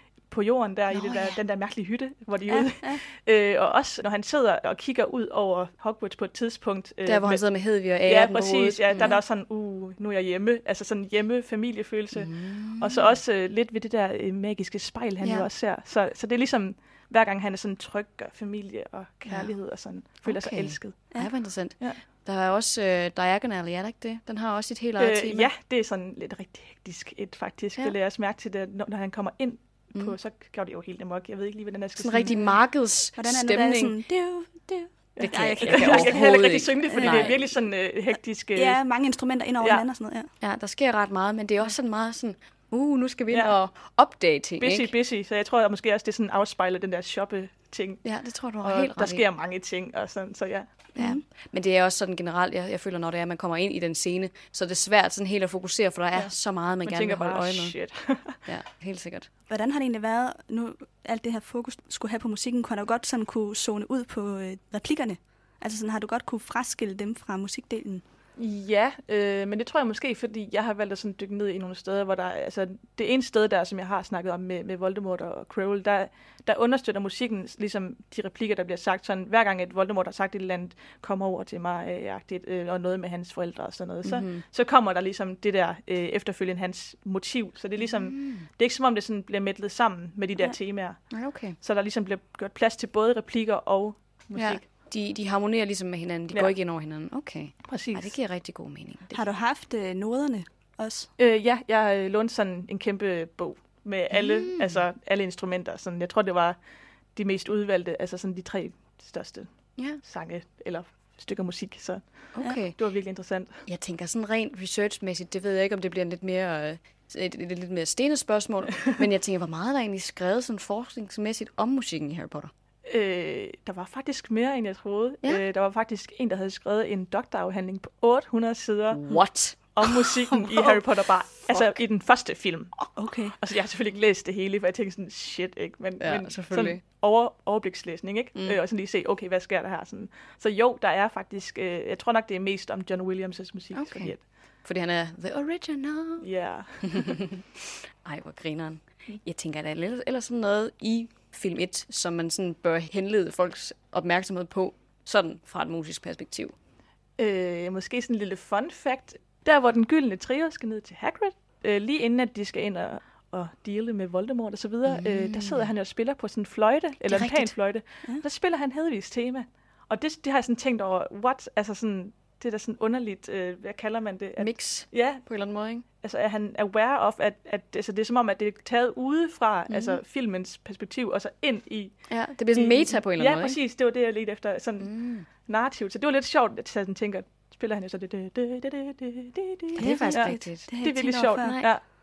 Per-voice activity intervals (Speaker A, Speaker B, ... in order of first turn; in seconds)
Speaker A: 0.3-7.4, 8.1-21.1, 25.0-32.5, 35.2-38.8, 44.6-48.0, 48.6-50.7, 56.8-58.4, 68.4-94.6, 97.7-98.1, 101.2-106.6, 107.2-109.5, 110.0-113.6, 122.9-144.2, 146.2-147.2, 157.2-175.2, 176.0-181.9, 182.5-191.8
Speaker B: 0.9-1.4, 7.1-9.2, 12.1-13.1, 19.3-19.5, 20.2-25.5, 32.0-34.0, 35.2-37.4, 40.4-44.9, 48.0-49.2, 51.0-57.8, 58.5-59.3, 84.0-84.4, 87.9-88.5, 91.1-91.6, 94.4-99.2, 104.1-104.8, 112.4-112.8, 113.7-122.5, 128.9-130.0, 136.0-136.8, 143.7-146.3, 146.8-156.5, 164.9-165.7, 167.1-167.6, 174.4-175.8, 179.7-180.0, 182.1-183.6, 184.8-185.3, 189.8-190.7, 191.4-191.7
Speaker C: 2.5-3.0, 33.2-36.2, 36.9-37.3, 38.5-40.3, 51.0-51.2, 59.5-68.0, 99.1-101.1, 133.0-133.3, 189.8-191.6